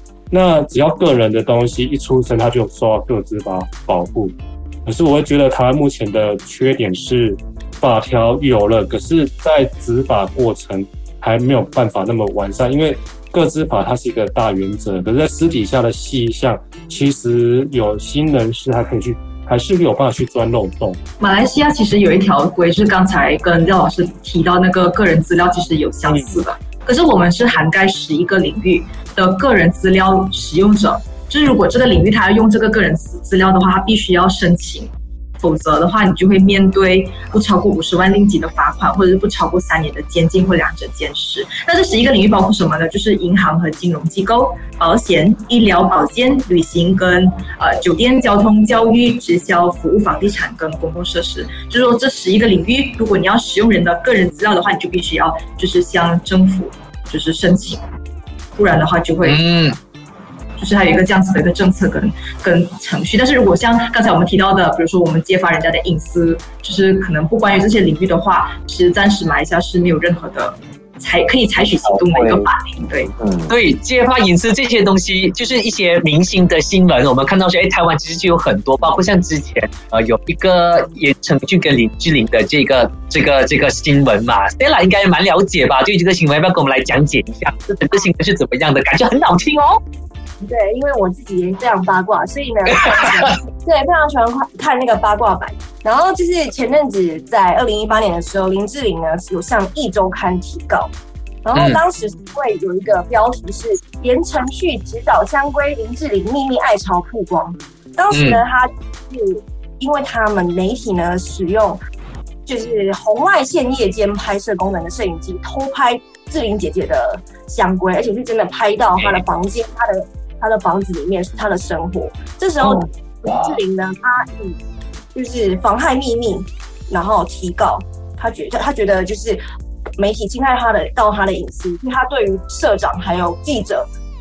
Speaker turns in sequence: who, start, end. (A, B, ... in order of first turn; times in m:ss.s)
0:00.3-0:21.0 A
0:21.2-0:57.8 B
0:58.6-0:59.6 B
0:59.2-0:59.8 C
1:00.6-1:13.1 B
1:11.8-1:12.5 D
1:13.2-1:13.5 D
1:13.5-1:29.8 C
1:30.4-1:40.9 E
1:33.0-1:33.3 C
1:41.4-1:51.8 E
1:41.5-1:41.8 C
1:48.1-1:48.4 C
1:52.4-2:04.6 E
2:02.6-2:03.5 D
2:05.1-2:09.4 E
2:10.0-2:13.9 E